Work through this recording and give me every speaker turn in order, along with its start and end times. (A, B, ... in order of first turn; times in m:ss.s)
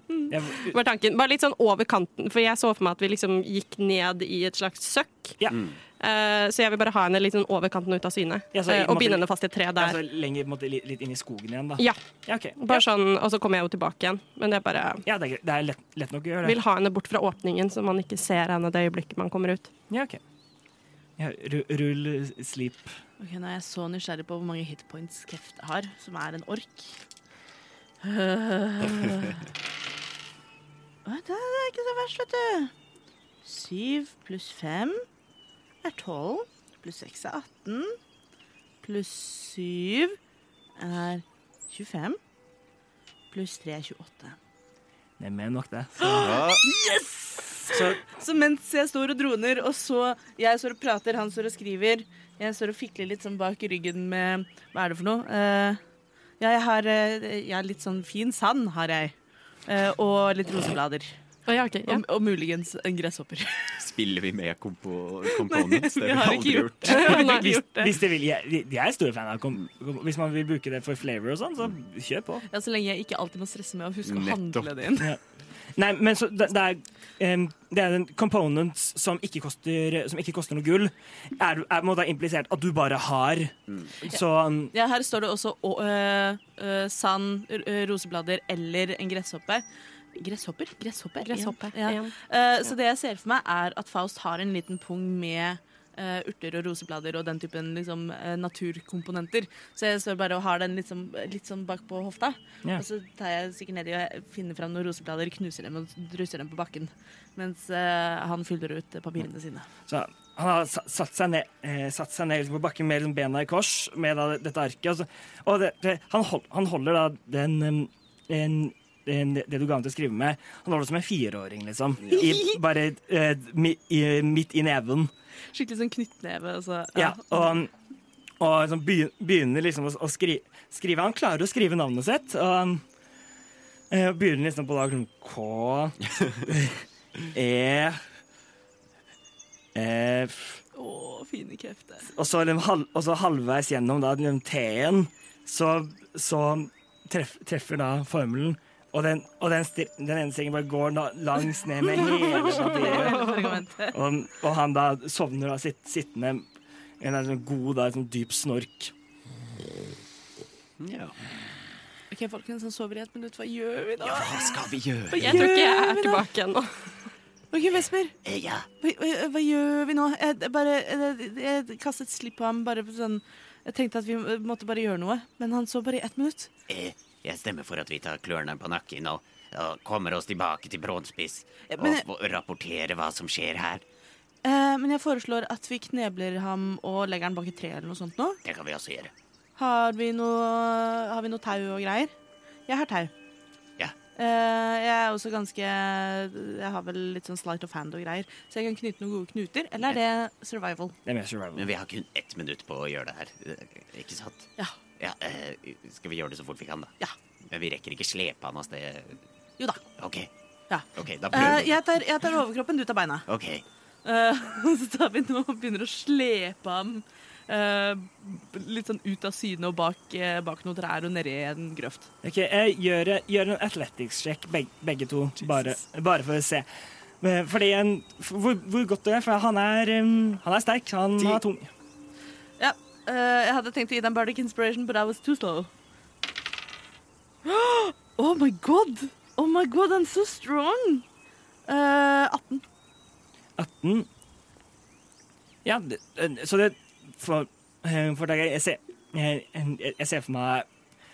0:00.3-0:00.8 A
0:00.6-0:05.4 B
0:05.4-0:05.7 A
0:06.0-0:10.0 B
0:08.5-0:09.2 A
0:09.8-0:12.8 A
0:12.6-0:15.0 B
0:15.0-0:16.6 A
0:16.4-0:19.7 B
0:19.9-0:20.2 A
0:21.2-0:23.0 A
0:23.2-0:27.0 C
0:28.0-0:29.4 C
0:31.0-0:32.7 C
0:33.4-0:35.0 C
0:35.8-0:38.0 C
0:38.8-0:40.2 C
0:40.8-0:42.2 C
0:43.3-0:44.4 C
0:45.2-0:46.3 A
0:46.0-0:55.8 C
0:46.2-0:46.6 D
0:47.7-0:48.0 A
0:56.4-0:59.1 C
0:59.7-1:01.1 C
1:01.5-1:02.0 B
1:01.8-1:03.7 C
1:03.8-1:07.1 D
1:05.3-1:08.0 C
1:06.9-1:07.5 B
1:07.0-1:12.4 A
1:12.5-1:15.0 C
1:14.0-1:15.0 D
1:15.8-1:24.7 A
1:24.7-1:49.7 C
1:31.2-1:32.1 B
1:49.9-2:05.1 A
2:05.5-2:07.5 C
2:06.9-2:07.7 A
2:08.4-2:12.8 A
2:13.9-2:18.0 A
2:19.7-2:20.6 A
2:20.7-2:22.1 C
2:22.1-2:33.3 A
2:32.1-2:33.9 C
2:33.0-2:33.4 B
2:33.9-2:36.4 A
2:37.0-2:38.9 A
2:40.8-2:41.2 D
2:42.1-2:46.2 C
2:44.0-2:45.5 D
2:45.2-2:46.7 B
2:47.5-2:48.2 C
2:48.2-2:48.7 D
2:48.8-2:56.5 C
2:56.7-3:03.8 D
3:01.7-3:02.0 C
3:04.4-3:08.4 C
3:08.4-3:09.1 D
3:09.6-3:12.1 C
3:12.7-3:13.1 C
3:14.2-3:20.9 C
3:21.0-3:21.7 A
3:21.5-3:26.9 D
3:27.5-3:29.2 D
3:30.0-3:30.3 D
3:30.7-3:33.2 C
3:30.9-3:31.8 D
3:33.3-3:33.6 D
3:34.0-3:42.1 C
3:42.2-3:46.6 A
3:47.2-3:51.7 A
3:52.6-3:55.7 C
3:57.4-4:01.0 C
4:01.7-4:02.6 C
4:03.6-4:04.1 A
4:05.6-4:10.7 A